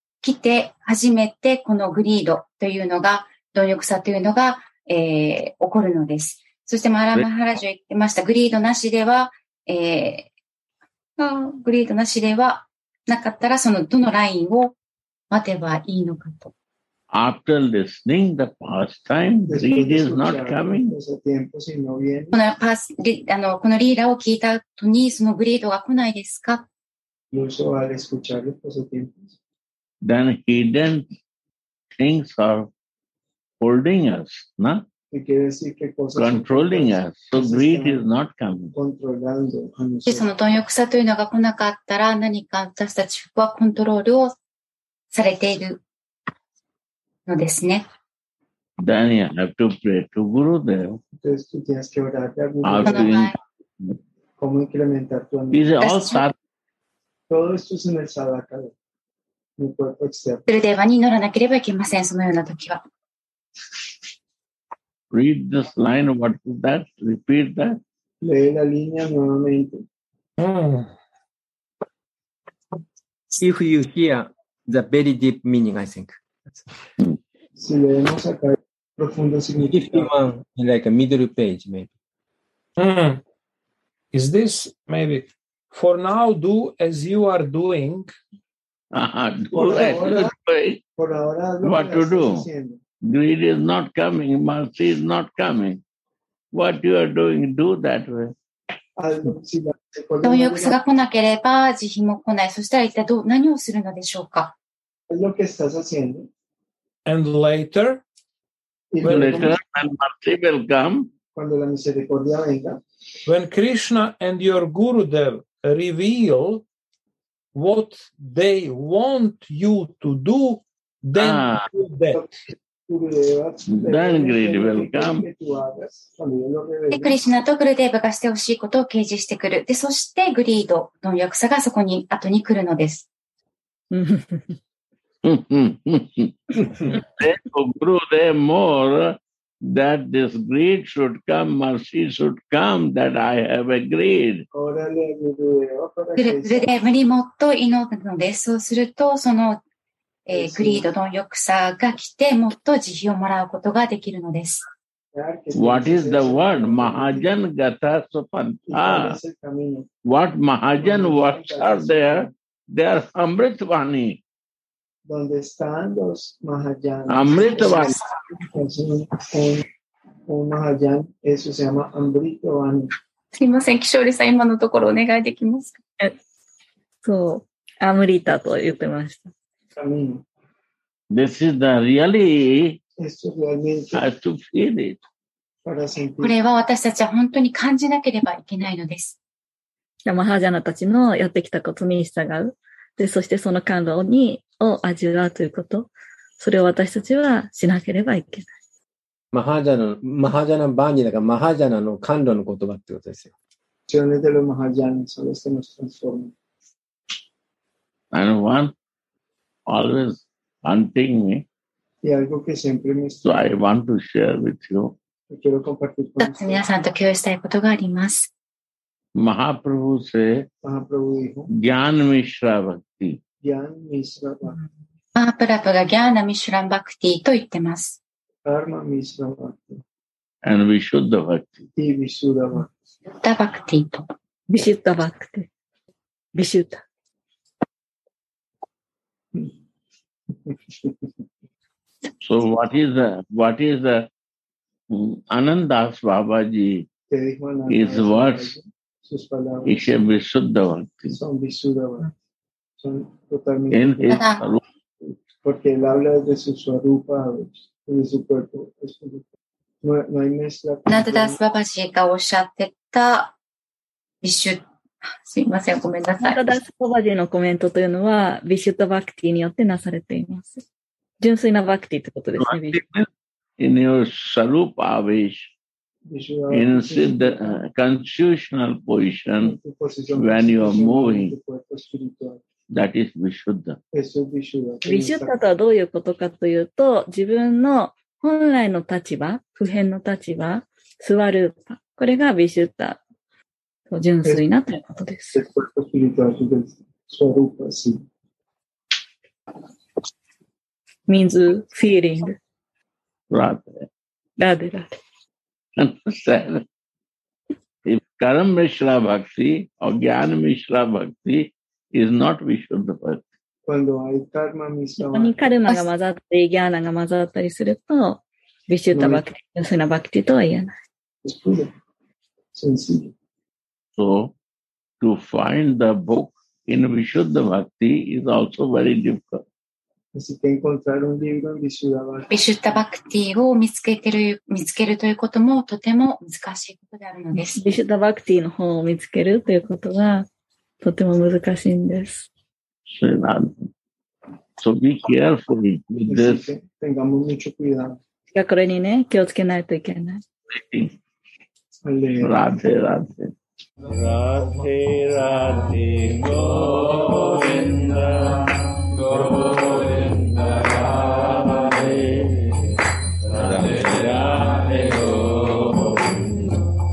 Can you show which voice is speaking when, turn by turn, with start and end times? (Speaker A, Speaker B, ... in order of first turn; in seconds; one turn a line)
Speaker A: 0.2-10.3
Speaker A: 11.2-14.8
Speaker A: 15.3-16.5
Speaker B: 17.1-20.9
Speaker C: 19.4-22.4
Speaker A: 22.3-26.7
Speaker C: 27.3-29.4
Speaker B: 30.0-31.1
Speaker B: 32.0-32.7
Speaker B: 33.6-34.9
Speaker C: 35.1-38.1
Speaker B: 36.2-38.7
Speaker C: 38.7-40.3
Speaker A: 40.1-44.4
Speaker A: 45.1-45.8
Speaker A: 47.3-47.9
Speaker B: 48.8-51.0
Speaker C: 51.2-53.2
Speaker B: 52.6-53.4
Speaker A: 52.8-53.4
Speaker C: 54.4-55.8
Speaker B: 55.5-56.3
Speaker A: 55.8-56.2
Speaker C: 57.3-58.7
Speaker C: 59.6-60.5
Speaker A: 60.5-62.8
Speaker B: 65.1-67.8
Speaker C: 68.2-69.8
Speaker D: 70.4-70.9
Speaker E: 73.3-76.5
Speaker C: 77.6-80.1
Speaker E: 79.7-81.9
Speaker D: 82.8-83.2
Speaker D: 84.1-88.1
Speaker B: 88.9-90.8
Speaker C: 89.5-90.3
Speaker C: 91.0-92.8
Speaker B: 91.7-92.5
Speaker B: 93.0-95.8
Speaker B: 96.5-98.3
Speaker C: 99.0-100.8
Speaker A: 100.2-104.5
Speaker C: 105.1-106.3
Speaker D: 107.1-108.0
Speaker C: 108.9-109.6
Speaker D: 109.0-109.3
Speaker B: 109.1-111.1
Speaker C: 111.3-112.8
Speaker D: 113.3-116.7
Speaker D: 117.5-122.2
Speaker B: 121.2-121.7
Speaker C: 122.1-127.2
Speaker B: 123.7-125.2
Speaker A: 126.9-133.1
Speaker F: 133.9-134.5
Speaker B: 135.2-136.3
Speaker B: 137.0-144.5
Speaker C: 144.5-146.7
Speaker A: 146.2-149.6
Speaker A: 150.3-154.6
Speaker C: 150.3-150.9
Speaker C: 155.1-157.4
Speaker B: 155.6-159.2
Speaker C: 158.7-159.9
Speaker B: 160.1-164.2
Speaker C: 160.8-162.3
Speaker C: 165.1-169.7
Speaker B: 167.1-168.0
Speaker C: 170.3-172.9
Speaker A: 173.3-175.8
Speaker F: 177.0-179.3
Speaker C: 179.8-180.2
Speaker B: 181.1-182.8
Speaker C: 183.0-184.1
Speaker B: 183.9-185.0
Speaker C: 185.7-186.4
Speaker A: 186.2-189.2
Speaker F: 190.1-198.5
Speaker E: 199.3-203.3
Speaker C: 203.9-206.3
Speaker B: 208.1-208.7
Speaker B: 209.7-211.4
Speaker C: 212.0-213.4
Speaker B: 213.2-214.9
Speaker C: 215.3-216.6
Speaker A: 216.2-218.3
Speaker B: 219.2-220.4
Speaker C: 220.6-221.5
Speaker B: 221.6-223.2
Speaker C: 223.4-224.6
Speaker A: 225.2-228.0
Speaker C: 228.5-229.8
Speaker B: 230.4-231.7
Speaker C: 231.8-232.7
Speaker A: 233.1-234.1
Speaker F: 234.5-235.5
Speaker F: 236.3-236.8
Speaker C: 240.5-241.0
Speaker B: 242.2-244.1
Speaker B: 244.9-246.9
Speaker C: 247.1-250.0
Speaker B: 247.7-248.5
Speaker B: 249.7-251.2
Speaker C: 251.1-252.1
Speaker C: 252.8-254.2
Speaker B: 253.7-254.6
Speaker A: 254.1-254.4
Speaker C: 255.4-259.2
Speaker C: 259.8-261.4
Speaker A: 260.9-263.4
Speaker A: 264.2-264.6
Speaker A: 265.2-266.6
Speaker F: 266.2-270.6
Speaker F: 271.2-272.8
Speaker B: 272.4-273.1
Speaker B: 273.6-275.5
Speaker C: 276.1-277.6
Speaker B: 276.5-279.6
Speaker C: 279.4-282.4
Speaker B: 280.2-281.3
Speaker B: 282.7-283.8
Speaker C: 283.9-285.3
Speaker F: 284.9-293.0
Speaker F: 293.9-295.4
Speaker C: 295.3-298.0
Speaker F: 301.1-302.4
Speaker B: 303.3-303.9
Speaker F: 304.4-305.0
Speaker B: 305.8-306.6
Speaker B: 307.9-313.2
Speaker C: 313.7-315.3
Speaker F: 315.0-320.7
Speaker C: 318.9-319.2
Speaker C: 321.2-321.7
Speaker C: 322.5-323.1
Speaker B: 324.0-324.4
Speaker B: 325.0-329.4
Speaker C: 330.1-332.3
Speaker A: 332.3-337.6
Speaker F: 337.5-340.3
Speaker F: 340.8-342.3
Speaker B: 342.9-343.6
Speaker B: 344.6-346.4
Speaker C: 346.1-348.0
Speaker F: 348.3-350.2
Speaker B: 350.5-350.9
Speaker C: 351.9-352.4
Speaker B: 352.2-353.3
Speaker B: 353.9-362.8
Speaker B: 363.3-366.6